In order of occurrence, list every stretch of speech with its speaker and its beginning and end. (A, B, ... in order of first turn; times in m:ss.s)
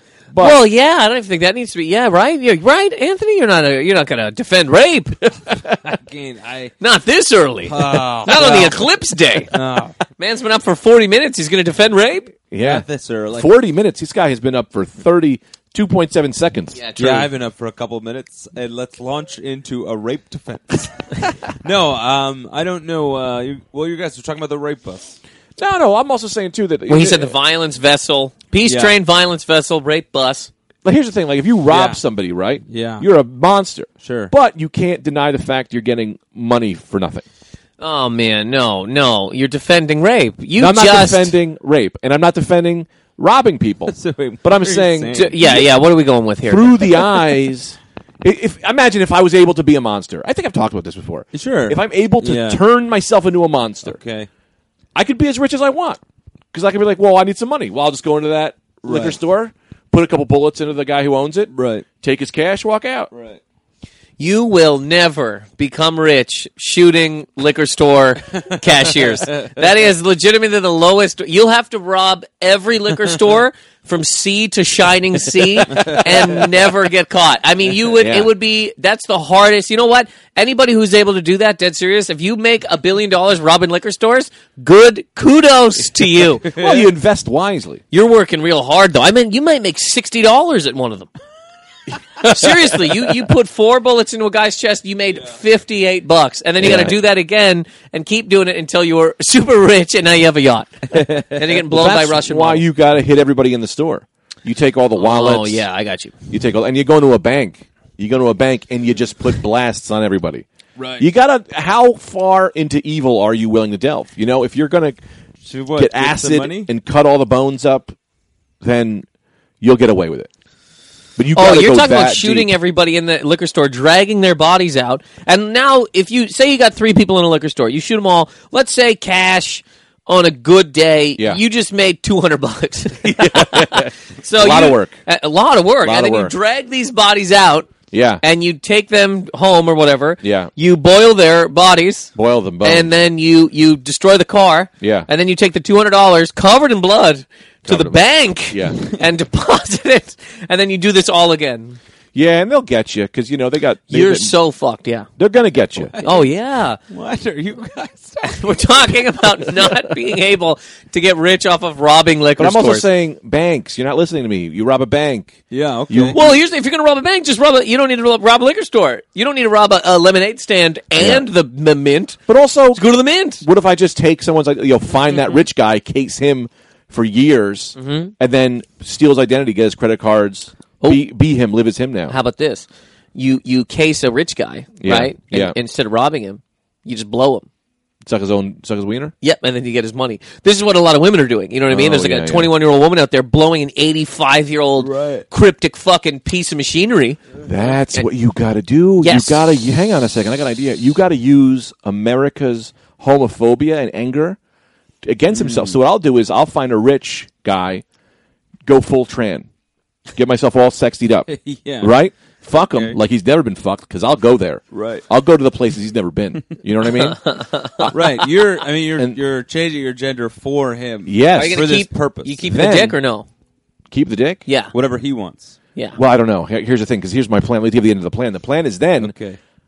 0:00.3-0:00.6 A
0:00.4-0:05.9 B
0:05.8-0:06.7 C
0:06.8-0:09.5 B
0:07.6-0:08.9 C
0:09.5-0:10.0 C
0:10.2-0:12.3 B
0:12.5-0:16.8 A
0:12.6-0:13.5 C
0:16.7-0:17.3 B
0:17.0-0:25.2 C
0:25.6-0:27.3 A
0:26.9-0:30.5 B
0:28.6-0:29.0 C
0:30.8-0:37.2 A
0:31.7-0:32.0 C
0:32.7-0:33.1 C
0:34.0-0:34.3 C
0:37.8-0:41.3 B
0:40.6-0:45.7 A
0:43.9-0:45.6 C
0:45.1-0:47.1 B
0:46.4-0:54.0 A
0:51.3-0:52.6 C
0:53.8-0:54.3 C
0:54.9-0:56.0 A
0:56.5-1:03.1 A
0:58.8-0:59.2 C
1:01.5-1:01.9 C
1:03.1-1:03.4 C
1:04.2-1:26.6 B
1:08.8-1:09.5 C
1:15.7-1:16.5 C
1:17.9-1:18.3 A
1:26.4-1:27.8 A
1:27.9-1:31.1 B
1:32.2-1:42.6 B
1:36.6-1:37.0 A
1:41.0-1:41.2 C
1:41.7-1:45.6 A
1:45.0-1:46.1 B
1:46.3-1:50.4 A
1:50.8-1:51.0 C
1:51.0-1:55.0 A
1:55.4-1:56.7 C
1:55.8-1:57.9 A
1:58.6-1:59.0 A
1:59.6-2:00.3 A
2:01.2-2:02.5 A
2:01.3-2:22.1 B
2:13.0-2:15.0 A
2:15.8-2:16.3 A
2:17.9-2:18.2 A
2:20.2-2:20.5 A
2:22.1-2:22.9 A
2:22.6-2:31.8 B
2:24.8-2:25.1 A
2:27.6-2:28.8 A
2:32.1-2:34.3 A
2:33.9-2:35.1 B
2:35.2-2:35.9 A
2:35.9-2:36.3 C
2:36.0-2:36.8 B
2:36.9-2:39.0 C
2:38.3-2:42.9 B
2:42.4-2:46.2 A
2:45.5-2:46.4 C
2:46.1-2:52.2 B
2:51.0-2:51.2 A
2:52.3-3:02.1 A
2:52.7-2:53.4 B
2:57.8-2:58.1 B
3:02.1-3:07.4 B
3:04.8-3:05.6 A
3:08.0-3:09.1 A
3:09.2-3:17.2 B
3:11.7-3:12.5 A
3:14.8-3:15.2 C
3:17.4-3:24.4 A
3:19.0-3:19.5 B
3:25.0-3:27.8 A
3:25.3-3:25.8 C
3:28.6-3:29.5 A
3:30.1-3:31.3 A
3:31.3-3:31.9 C
3:31.8-3:37.9 A
3:32.7-3:33.0 C
3:34.7-3:35.0 C
3:37.0-3:37.9 B
3:37.9-3:42.4 C
3:41.0-3:41.6 A
3:41.3-3:43.3 B
3:42.5-3:43.0 A
3:43.9-3:44.4 A
3:44.5-3:44.7 B
3:44.7-3:45.6 C
3:46.0-3:49.1 A
3:49.0-3:49.4 C